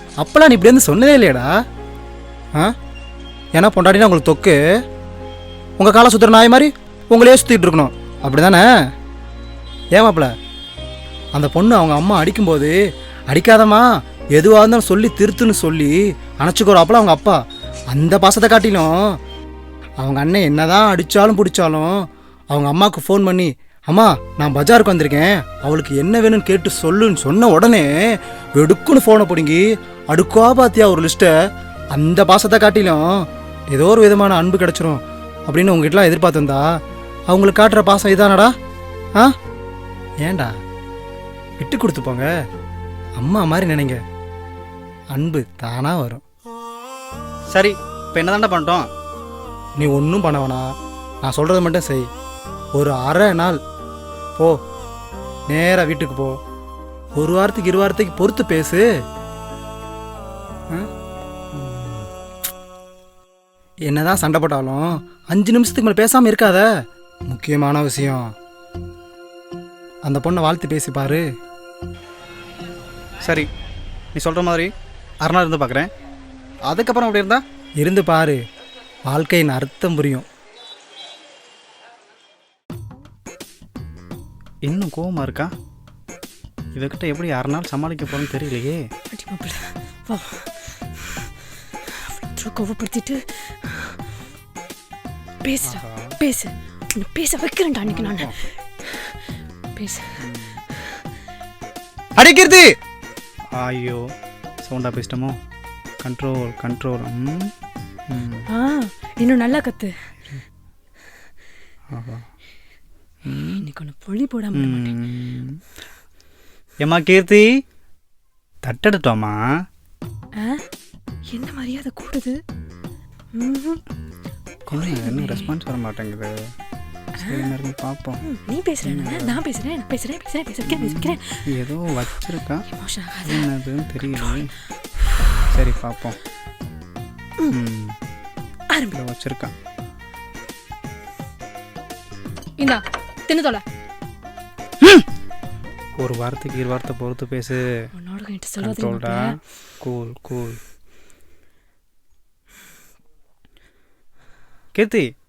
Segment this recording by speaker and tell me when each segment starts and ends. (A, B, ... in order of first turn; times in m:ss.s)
0:00.2-0:01.5 A
0:03.5-0:04.6 A
0:05.8-0:08.6 A
0:09.9-0:10.3 A
0:11.3-0:12.7 A
0:13.3-0:17.4 A
0:17.9-0:19.0 A
0:20.0-0:22.0 A
0:22.5-0:27.9 A
0:28.6-0:31.3 A
0:31.9-0:33.1 A
0:33.7-0:36.6 A
0:37.3-0:38.5 A
0:40.2-0:40.5 A
0:41.6-0:42.3 A
0:43.2-0:44.0 A
0:45.1-0:46.2 A
0:47.5-0:48.9 B
0:49.8-0:50.7 A
0:51.2-0:52.1 A
0:52.7-0:53.6 A
0:55.5-0:56.4 A
0:57.2-0:58.8 A
1:01.5-1:02.1 A
1:03.9-1:06.7 A
1:07.3-1:08.3 A
1:10.0-1:11.2 A
1:13.2-1:13.5 B
1:14.1-1:15.9 B
1:16.6-1:17.4 B
1:17.8-1:18.4 A
1:19.0-1:20.2 A
1:24.6-1:25.5 B
1:26.7-1:28.8 B
1:29.1-1:31.2 C
1:32.0-1:33.9 C
1:35.4-1:38.3 C
1:35.7-1:36.1 B
1:37.9-1:38.3 B
1:39.8-1:40.1 C
1:40.2-1:40.6 B
1:42.2-1:42.7 B
1:43.5-1:44.0 B
1:44.6-1:45.3 B
1:46.0-1:47.5 B
1:48.1-1:48.4 B
1:48.5-1:49.9 C
1:51.9-1:52.2 B
1:53.2-1:53.6 B
1:53.6-1:55.0 C
1:54.5-1:55.5 B
1:56.8-1:57.4 B
1:58.6-1:59.4 B
2:01.3-2:02.4 C
2:03.4-2:03.8 C
2:04.7-2:06.3 B
2:04.7-2:05.5 C
2:07.2-2:07.5 C
2:07.2-2:08.2 B
2:08.2-2:11.4 C
2:08.8-2:09.4 B
2:10.6-2:12.6 B
2:12.7-2:13.5 C
2:13.2-2:14.5 B
2:14.0-2:14.4 C
2:15.5-2:16.2 B
2:17.5-2:17.9 B
2:18.9-2:19.5 B
2:22.6-2:23.6 C
2:26.0-2:27.6 B
2:27.9-2:29.3 C
2:28.6-2:30.6 B
2:34.7-2:35.0 B